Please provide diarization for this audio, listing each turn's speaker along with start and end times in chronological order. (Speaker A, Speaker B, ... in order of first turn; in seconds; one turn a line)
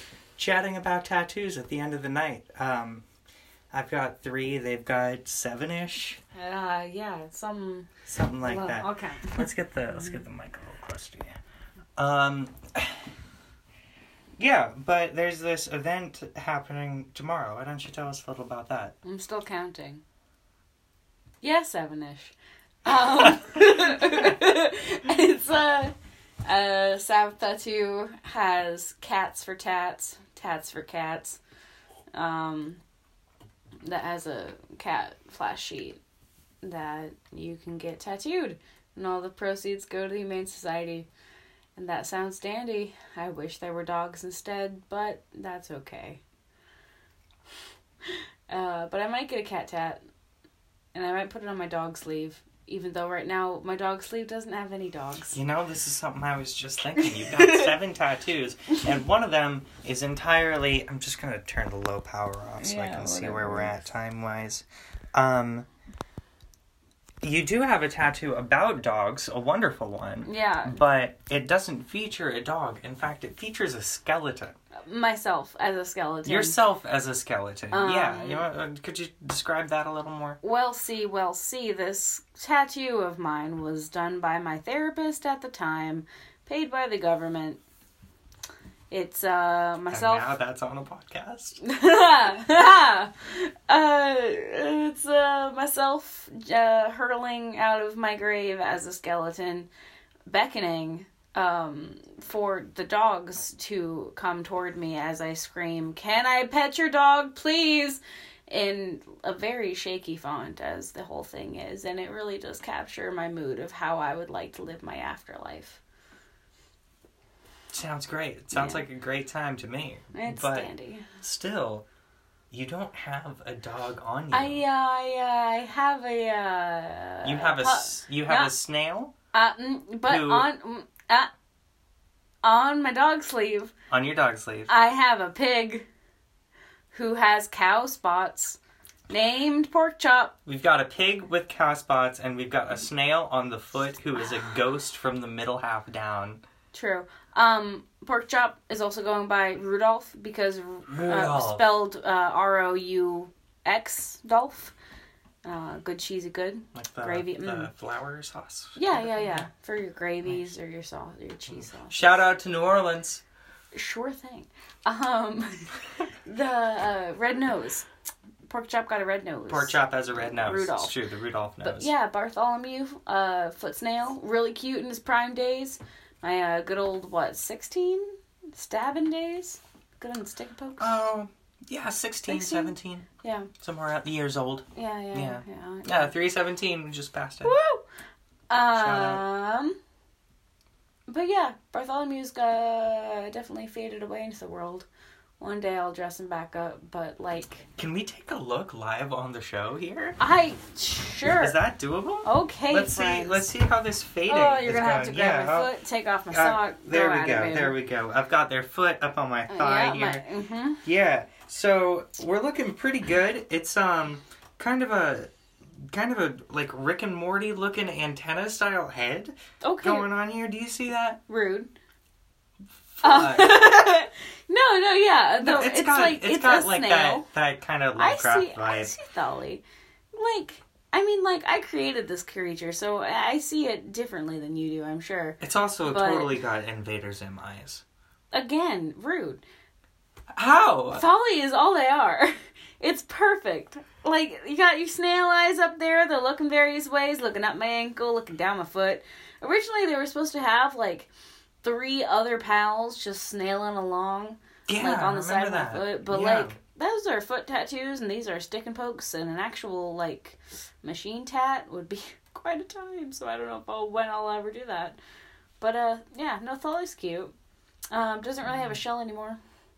Speaker A: 0.4-3.0
Speaker A: 3.7-6.2
Speaker B: 6.3-7.9
Speaker A: 8.1-11.3
Speaker B: 8.4-10.2
Speaker A: 12.0-13.0
Speaker A: 14.4-18.9
Speaker B: 19.0-20.0
Speaker B: 21.4-25.9
Speaker B: 26.4-31.4
Speaker B: 32.1-32.8
Speaker B: 33.8-36.0
Speaker B: 36.6-41.1
Speaker B: 41.8-46.2
Speaker B: 48.5-50.0
Speaker B: 50.9-55.4
Speaker A: 55.3-65.7
Speaker B: 57.0-57.7
Speaker B: 62.6-63.8
Speaker A: 67.2-74.5
Speaker B: 70.2-70.8
Speaker B: 74.8-76.5
Speaker A: 76.2-80.4
Speaker B: 77.7-78.5
Speaker B: 80.4-87.6
Speaker B: 88.9-90.3
Speaker A: 89.9-91.6
Speaker B: 91.6-99.7
Speaker B: 100.3-115.8
Speaker A: 117.7-121.8
Speaker B: 118.5-118.8
Speaker B: 120.1-121.1
Speaker A: 122.5-124.6
Speaker B: 124.3-128.5
Speaker A: 127.2-129.1
Speaker B: 129.3-131.3
Speaker A: 130.1-130.5
Speaker B: 132.4-133.7
Speaker A: 133.9-134.7
Speaker B: 134.7-135.9
Speaker B: 136.9-138.6
Speaker B: 139.1-140.3
Speaker A: 140.4-146.4
Speaker B: 146.7-154.7
Speaker A: 150.9-151.6
Speaker B: 155.4-157.7
Speaker A: 156.7-159.5
Speaker B: 158.7-162.0
Speaker A: 161.7-163.2
Speaker B: 163.7-165.6
Speaker B: 166.2-167.8
Speaker B: 168.5-170.9
Speaker A: 169.5-171.9
Speaker B: 171.6-181.0
Speaker A: 180.8-183.1
Speaker B: 182.3-183.5
Speaker A: 183.6-187.6
Speaker B: 184.7-186.1
Speaker B: 187.4-187.8
Speaker B: 188.5-189.8
Speaker A: 188.7-189.2
Speaker B: 191.1-194.9
Speaker B: 195.4-197.7
Speaker A: 197.8-200.2
Speaker B: 200.2-201.6
Speaker A: 201.2-205.7
Speaker B: 202.2-203.5
Speaker B: 204.3-207.8
Speaker A: 206.3-210.2
Speaker B: 209.5-210.8
Speaker A: 210.8-215.3
Speaker A: 215.8-221.2
Speaker B: 219.6-220.1
Speaker B: 221.3-221.7
Speaker A: 223.0-223.6
Speaker B: 223.0-227.2
Speaker A: 225.4-228.9
Speaker B: 227.9-229.6
Speaker B: 230.1-236.3
Speaker A: 235.4-237.8
Speaker B: 238.3-239.4
Speaker A: 240.3-241.0
Speaker B: 240.9-251.1
Speaker B: 251.6-265.0
Speaker A: 254.7-256.6
Speaker B: 265.6-267.3
Speaker B: 267.9-269.4